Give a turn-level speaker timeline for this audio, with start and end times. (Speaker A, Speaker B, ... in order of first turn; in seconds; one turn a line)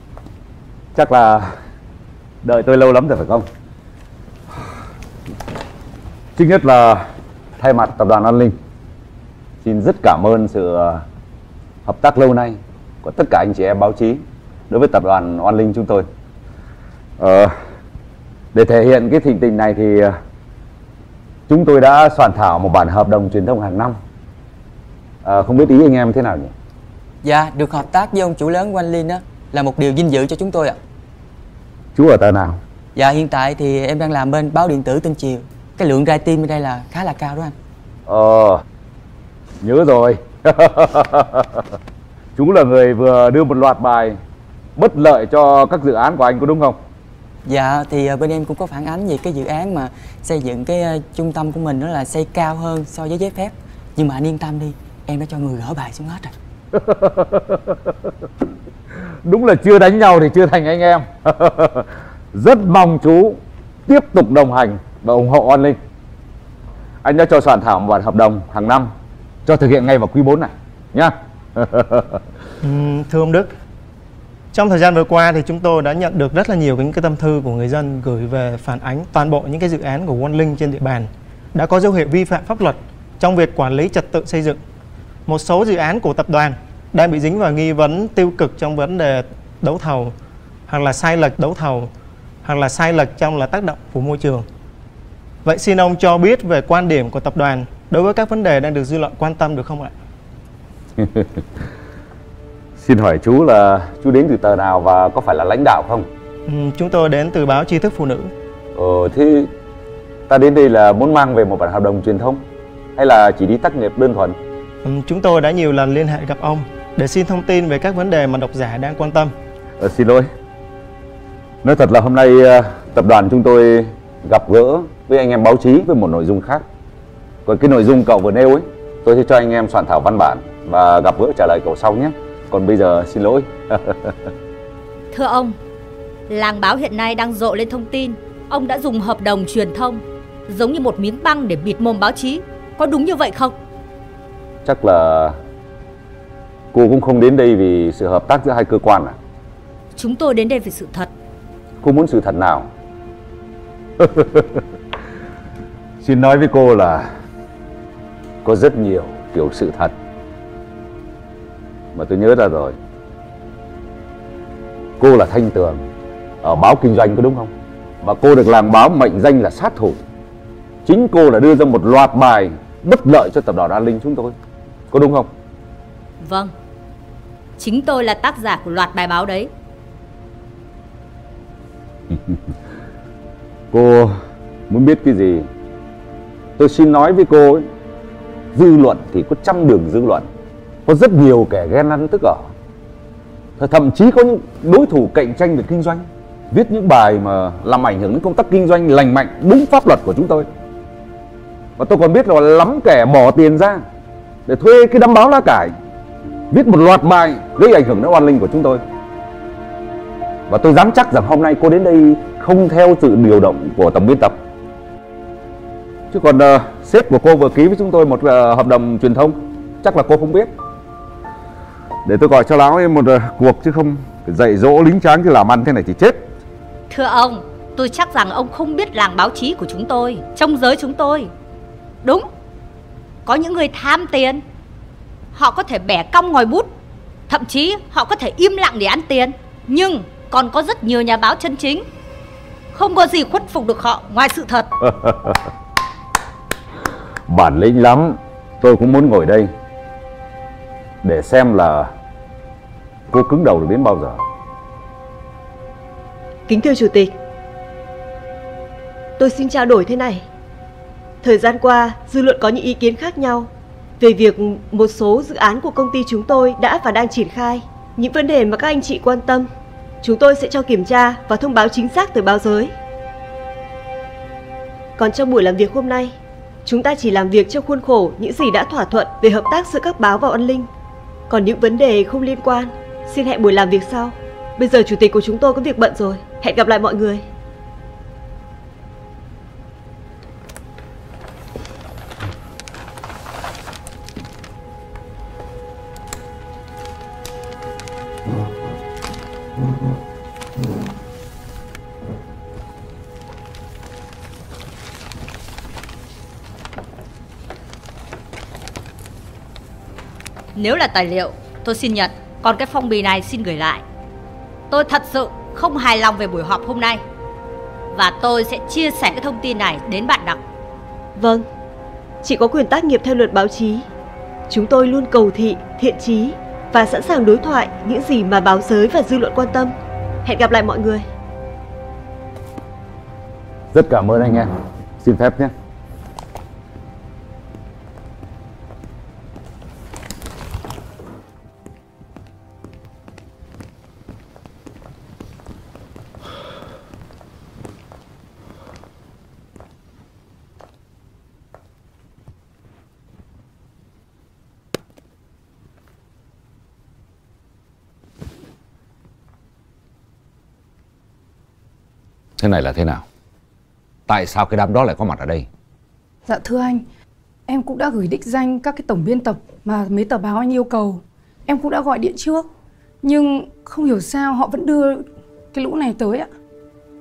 Speaker A: 0.9-1.4
Speaker A: 2.4-3.4
Speaker A: 6.3-7.0
Speaker A: 7.6-8.5
Speaker A: 9.6-11.0
Speaker A: 11.8-16.0
Speaker A: 17.2-17.5
Speaker A: 18.5-20.1
Speaker A: 21.5-23.9
Speaker A: 25.2-26.5
Speaker B: 27.2-30.8
Speaker A: 31.9-32.6
Speaker B: 32.9-37.5
Speaker A: 38.1-38.6
Speaker A: 39.6-41.6
Speaker A: 42.4-44.2
Speaker A: 44.8-46.8
Speaker B: 47.5-56.3
Speaker A: 56.7-57.6
Speaker A: 59.2-65.8
Speaker A: 67.0-68.9
Speaker A: 69.5-72.2
Speaker C: 72.6-73.5
Speaker C: 74.5-84.6
Speaker C: 85.3-90.1
Speaker C: 90.7-91.9
Speaker C: 92.4-94.4
Speaker C: 95.4-99.9
Speaker A: 101.0-101.2
Speaker A: 102.8-106.0
Speaker C: 106.5-108.3
Speaker A: 108.8-109.5
Speaker A: 110.3-112.4
Speaker A: 113.0-114.3
Speaker C: 114.8-119.3
Speaker A: 119.8-120.3
Speaker A: 121.6-126.6
Speaker A: 127.5-134.1
Speaker D: 135.1-135.5
Speaker D: 136.3-143.5
Speaker A: 144.6-145.3
Speaker A: 146.7-149.1
Speaker D: 149.9-151.1
Speaker A: 151.8-152.7
Speaker A: 154.0-154.4
Speaker A: 156.0-157.1
Speaker A: 158.4-159.9
Speaker A: 161.9-162.8
Speaker A: 165.0-165.8
Speaker A: 166.4-170.0
Speaker A: 170.8-174.3
Speaker A: 174.9-175.3
Speaker D: 176.2-176.5
Speaker D: 177.6-179.5
Speaker A: 183.7-184.1
Speaker A: 184.7-185.4
Speaker A: 186.6-187.7
Speaker A: 188.5-190.3
Speaker A: 190.8-192.5
Speaker A: 193.6-200.4
Speaker A: 201.8-203.8
Speaker A: 204.5-205.7
Speaker A: 206.5-208.8
Speaker A: 210.5-214.3
Speaker A: 216.1-220.5
Speaker A: 222.0-226.2
Speaker D: 226.9-231.3
Speaker D: 233.2-234.4
Speaker D: 235.3-236.7
Speaker D: 237.3-241.8
Speaker D: 242.7-244.7
Speaker A: 244.8-245.4
Speaker A: 247.3-249.5
Speaker A: 251.0-251.9
Speaker A: 253.1-254.2
Speaker E: 256.5-257.1
Speaker E: 259.2-260.2
Speaker E: 261.2-263.5
Speaker E: 264.0-269.5
Speaker E: 270.0-272.7
Speaker E: 275.0-276.1
Speaker E: 276.6-280.7
Speaker E: 281.3-287.2
Speaker D: 310.6-313.8
Speaker D: 314.7-317.0
Speaker D: 317.9-320.4
Speaker E: 321.1-321.4
Speaker E: 322.2-323.9
Speaker E: 324.5-329.7
Speaker E: 330.2-331.0
Speaker A: 333.7-335.5
Speaker A: 362.4-363.0
Speaker A: 364.1-365.5
Speaker F: 366.3-366.8
Speaker F: 367.5-372.5
Speaker F: 373.0-376.3